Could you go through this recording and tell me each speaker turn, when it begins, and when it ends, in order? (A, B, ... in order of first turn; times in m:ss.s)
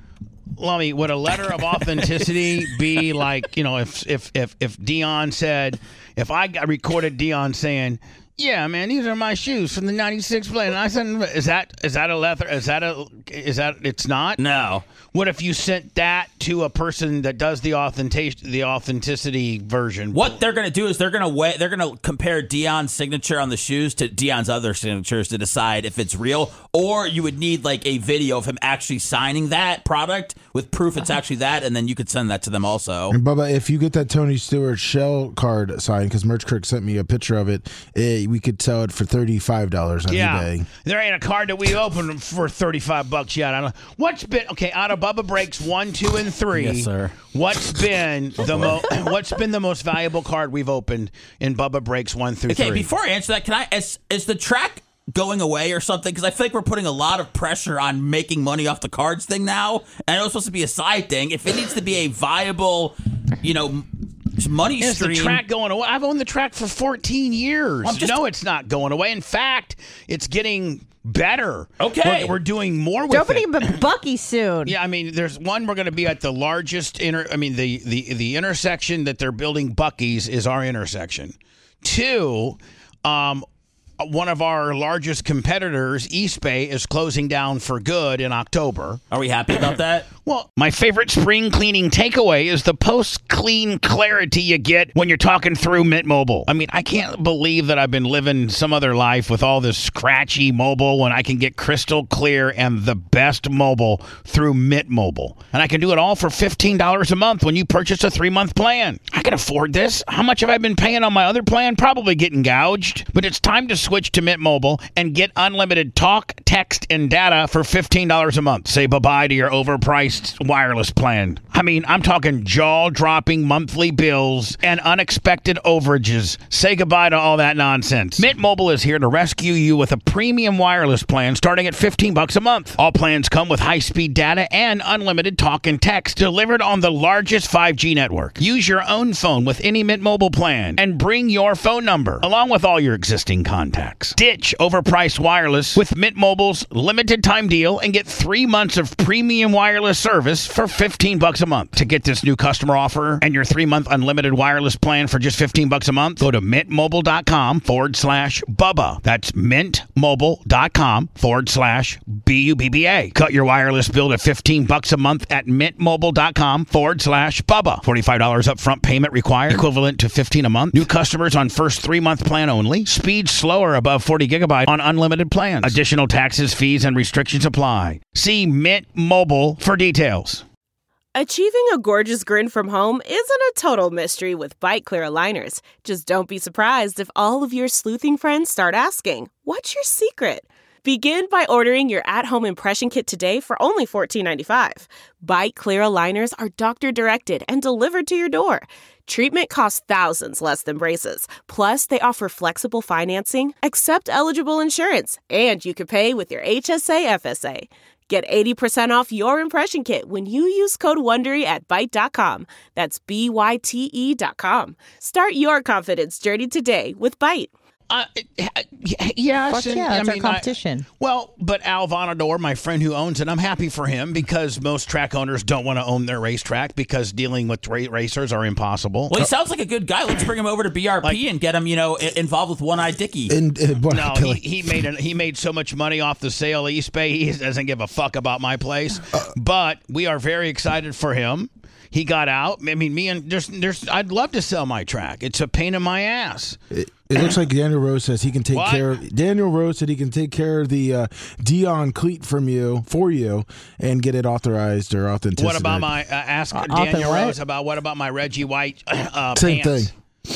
0:00.6-0:14.4 A
0:14.4-0:14.8 B
0:15.1-0:20.4 A
0:20.1-0:33.2 B
0:33.1-0:40.7 C
0:40.1-0:52.9 A
0:46.5-0:47.2 B
0:48.4-0:48.9 B
0:52.5-1:05.4 B
1:04.8-1:13.8 A
1:07.8-1:08.2 B
1:11.8-1:12.4 B
1:13.1-1:14.8 D
1:14.6-1:23.4 A
1:24.0-1:29.0 A
1:29.1-1:30.1 B
1:30.2-3:00.4 A
3:01.1-3:37.5 E
3:37.9-3:49.2 A
3:39.5-3:40.9 D
3:49.1-3:53.4 B
3:53.3-3:54.4 C
3:53.9-4:06.6 A
4:06.7-4:15.9 C
4:08.5-4:08.9 A
4:15.4-4:19.9 A
4:16.5-4:17.4 D
4:19.4-4:19.9 C